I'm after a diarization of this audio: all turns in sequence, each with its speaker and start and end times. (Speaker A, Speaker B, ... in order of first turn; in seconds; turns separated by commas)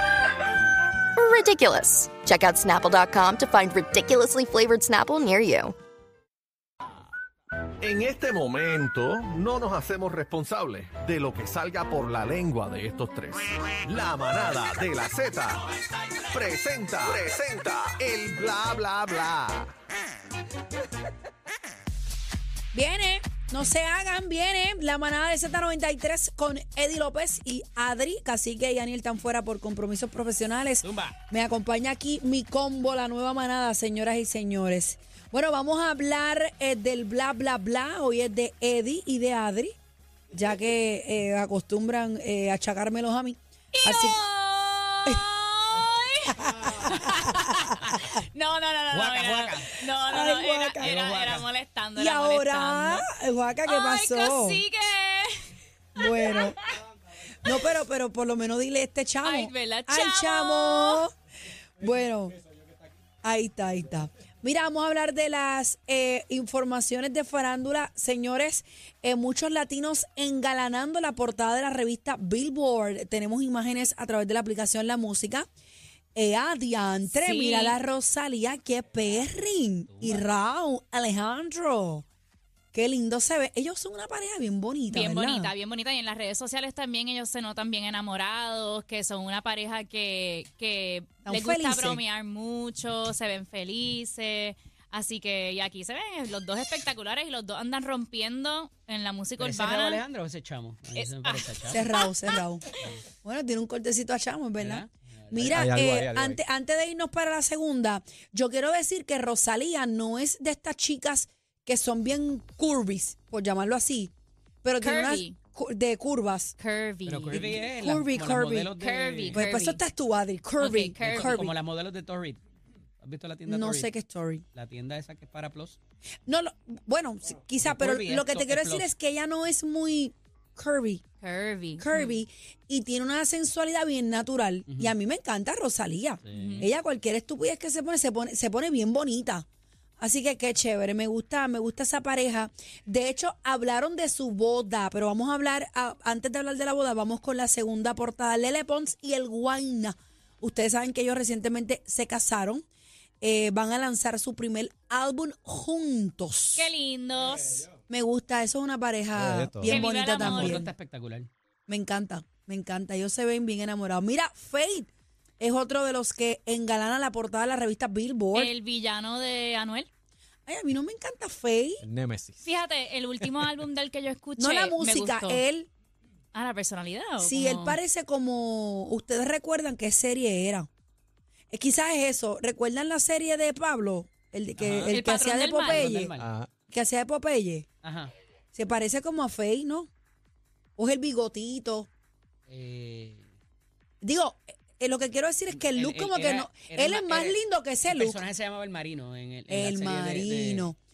Speaker A: 1.1-5.7, Speaker B: 7.8-15.6, Speaker B: 16.3-19.7, Speaker C: 22.7-39.7, Speaker D: 30.8-31.1, Speaker C: 40.3-44.2, Speaker E: 43.7-53.1, Speaker C: 46.3-46.9, Speaker D: 48.9-49.8, Speaker C: 49.9-51.0, Speaker D: 50.8-51.5, Speaker C: 52.0-54.6, Speaker E: 53.6-56.5, Speaker C: 56.0-56.6, Speaker C: 57.4-61.1, Speaker E: 59.2-61.0, Speaker C: 61.8-62.4, Speaker C: 63.2-75.5, Speaker C: 76.1-82.0, Speaker E: 77.2-77.8, Speaker D: 79.9-80.3, Speaker C: 82.7-85.5, Speaker E: 84.9-100.0, Speaker C: 91.2-92.0, Speaker D: 99.4-101.8, Speaker E: 101.0-102.4, Speaker C: 101.7-102.6, Speaker C: 103.2-116.5, Speaker D: 104.6-105.6, Speaker F: 105.3-106.4, Speaker E: 114.8-115.4, Speaker E: 116.6-117.5, Speaker D: 117.1-119.4, Speaker C: 117.3-118.8, Speaker E: 118.8-119.8, Speaker C: 119.3-121.5, Speaker E: 120.6-121.4, Speaker D: 121.0-122.4, Speaker D: 123.0-123.9, Speaker C: 123.5-124.4, Speaker D: 124.5-125.8, Speaker C: 126.2-131.0, Speaker D: 127.6-128.9, Speaker E: 131.2-132.2, Speaker C: 131.8-139.4, Speaker D: 134.7-134.9, Speaker D: 136.2-136.6, Speaker E: 136.3-136.7, Speaker C: 140.0-152.6, Speaker C: 153.2-156.7, Speaker E: 156.5-157.7, Speaker F: 157.2-157.6, Speaker C: 157.9-160.7, Speaker F: 159.1-159.8, Speaker E: 159.6-160.6, Speaker D: 159.9-161.3, Speaker C: 161.7-164.9, Speaker C: 165.4-168.5, Speaker E: 168.3-169.9, Speaker C: 170.4-171.8, Speaker F: 171.8-172.5, Speaker E: 172.4-175.4, Speaker C: 174.4-175.7, Speaker E: 176.3-177.8, Speaker C: 177.2-180.7, Speaker C: 181.5-186.1, Speaker D: 184.6-184.9, Speaker E: 184.9-185.9, Speaker D: 185.7-186.3, Speaker F: 186.2-186.5, Speaker C: 186.7-187.7, Speaker D: 187.8-188.1, Speaker C: 188.5-189.9, Speaker C: 190.8-191.9, Speaker D: 192.5-193.3, Speaker C: 194.0-198.2, Speaker D: 195.5-200.7, Speaker C: 199.5-200.8